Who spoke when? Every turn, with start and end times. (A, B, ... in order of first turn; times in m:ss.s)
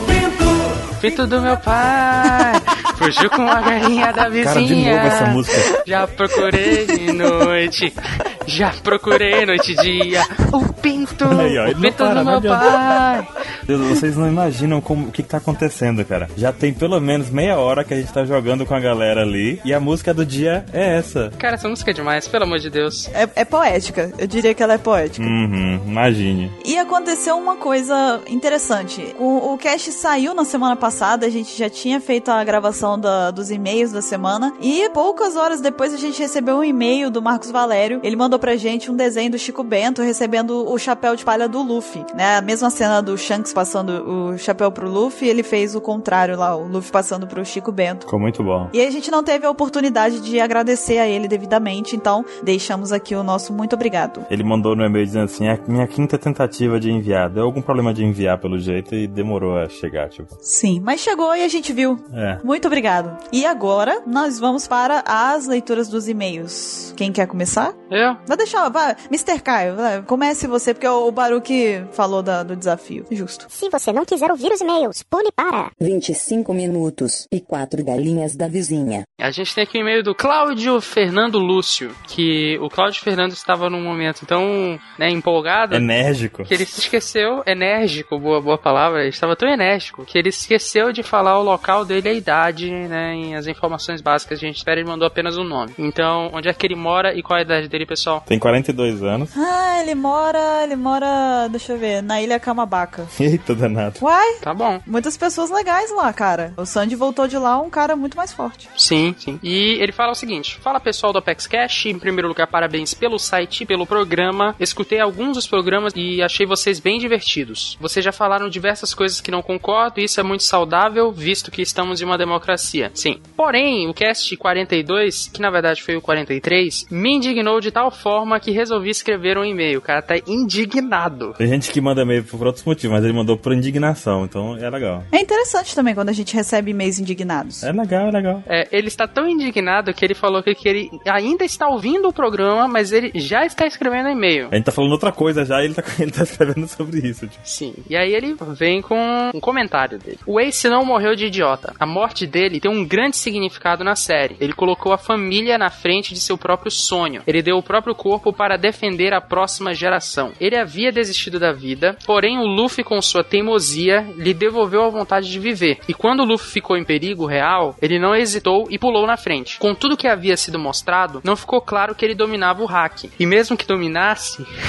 0:01.0-0:13.4 A
0:04.4-0:05.7 B
0:11.2-0:12.8 B
0:13.7-0:21.4 B
0:21.4-0:23.1 A
0:23.1-0:25.3 C
0:25.2-0:26.6 B
0:26.6-0:48.1 C
0:48.1-0:48.7 B
0:48.7-0:54.3 C
0:54.3-1:00.4 B
1:00.4-1:13.5 C
1:02.1-1:02.4 B
1:07.9-1:08.2 A
1:13.5-1:15.7 D
1:15.8-1:19.0 E
1:19.2-1:25.9 A
1:25.7-1:26.5 B
1:26.5-1:38.2 A
1:38.3-1:39.3 B
1:39.3-1:43.1 C
1:43.2-1:44.0 B
1:44.0-1:48.7 C
1:44.4-1:44.8 A
1:48.8-2:11.4 A
2:11.4-2:15.1 B
2:15.1-2:17.7 C
2:17.6-2:18.4 B
2:18.5-2:24.5 A
2:24.5-2:27.4 B
2:27.4-2:54.5 A